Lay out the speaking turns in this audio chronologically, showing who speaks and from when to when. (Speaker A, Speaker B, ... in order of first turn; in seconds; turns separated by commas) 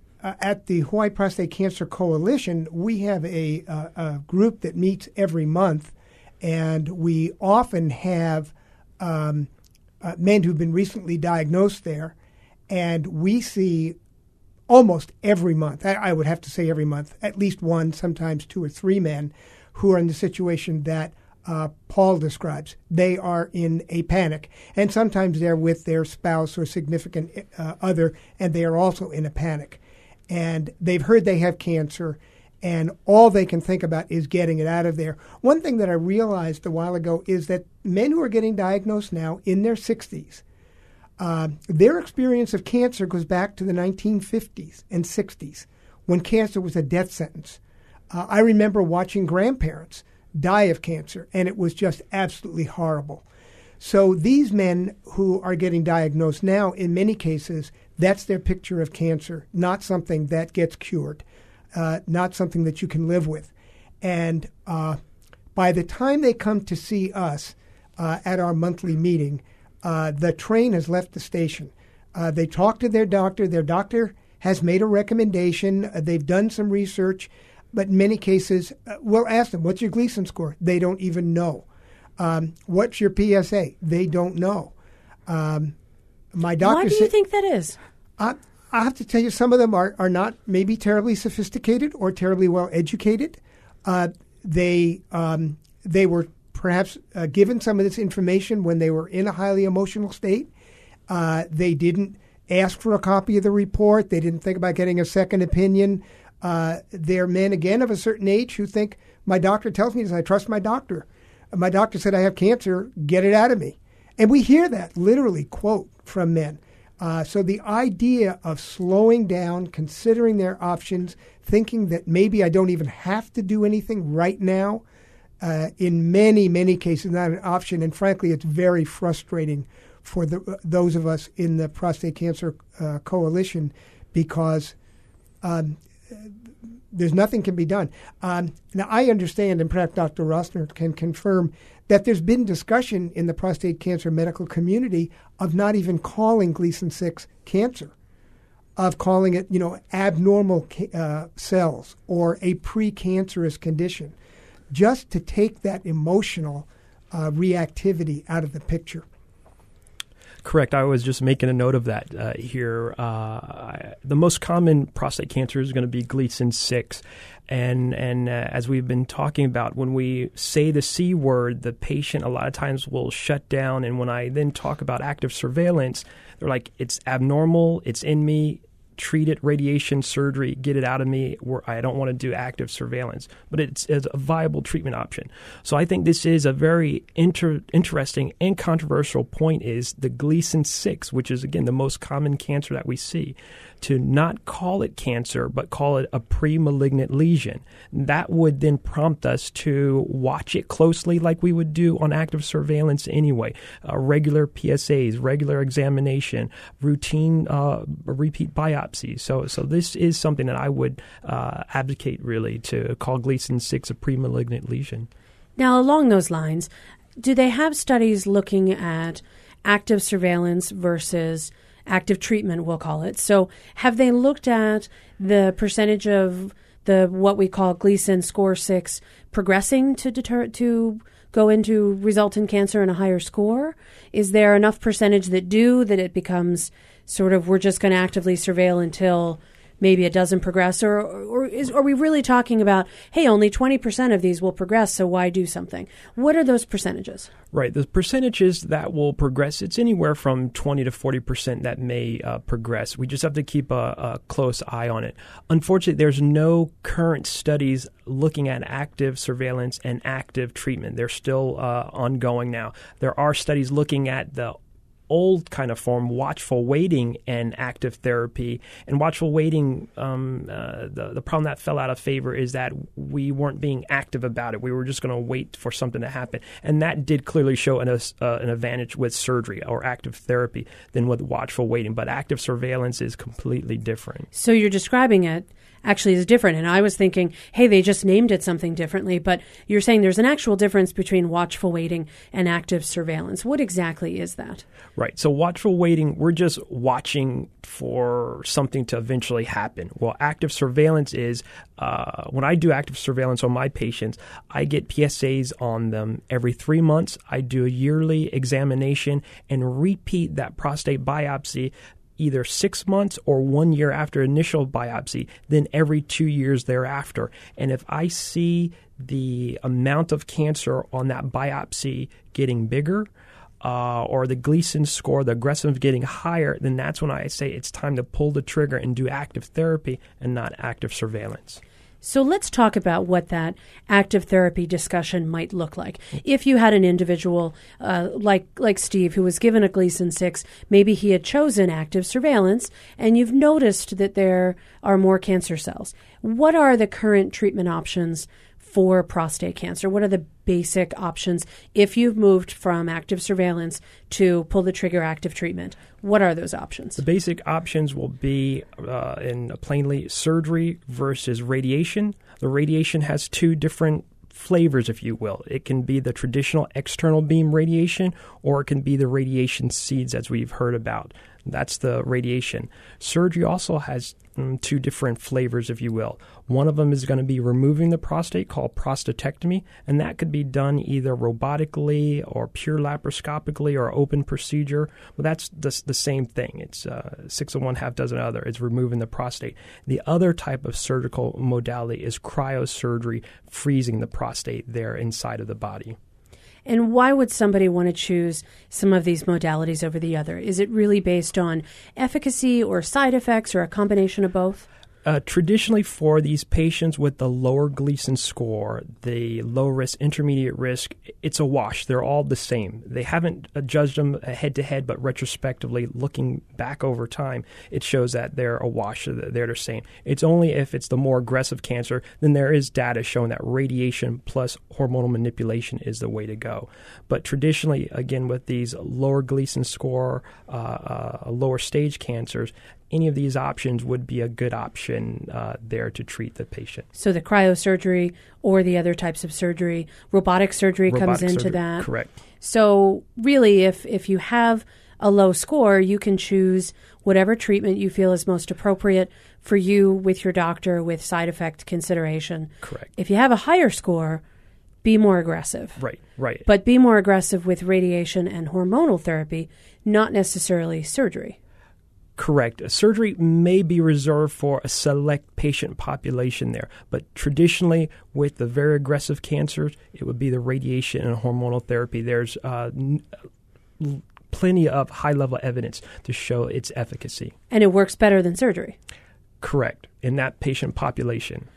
Speaker A: 0.2-9.5, Speaker A: 10.0-12.2, Speaker A: 12.7-14.0, Speaker A: 14.7-40.4, Speaker A: 41.2-47.6, Speaker A: 48.1-53.2, Speaker A: 53.8-61.2, Speaker A: 61.7-63.5, Speaker A: 64.0-65.0, Speaker A: 65.6-81.7, Speaker A: 82.2-84.7, Speaker A: 85.3-85.7, Speaker A: 86.3-87.1, Speaker B: 86.6-87.8, Speaker A: 88.2-100.5, Speaker A: 101.1-124.8, Speaker A: 125.4-134.8, Speaker A: 135.4-136.3, Speaker A: 136.9-147.9, Speaker A: 148.8-154.1, Speaker A: 154.7-159.1, Speaker C: 160.4-215.1, Speaker B: 215.6-247.3, Speaker C: 247.5-264.6, Speaker C: 265.1-284.3, Speaker B: 284.3-294.6, Speaker C: 295.0-323.1, Speaker C: 323.6-331.6, Speaker B: 332.0-357.0, Speaker C: 357.0-396.0, Speaker B: 396.7-404.7, Speaker C: 405.0-436.9, Speaker B: 436.9-441.9, Speaker C: 440.9-442.1, Speaker B: 442.4-454.2, Speaker C: 452.6-452.9, Speaker B: 454.8-455.8, Speaker C: 455.8-456.5, Speaker B: 456.5-461.4, Speaker C: 462.2-473.1, Speaker C: 473.8-477.3, Speaker B: 477.5-478.8, Speaker C: 479.4-481.5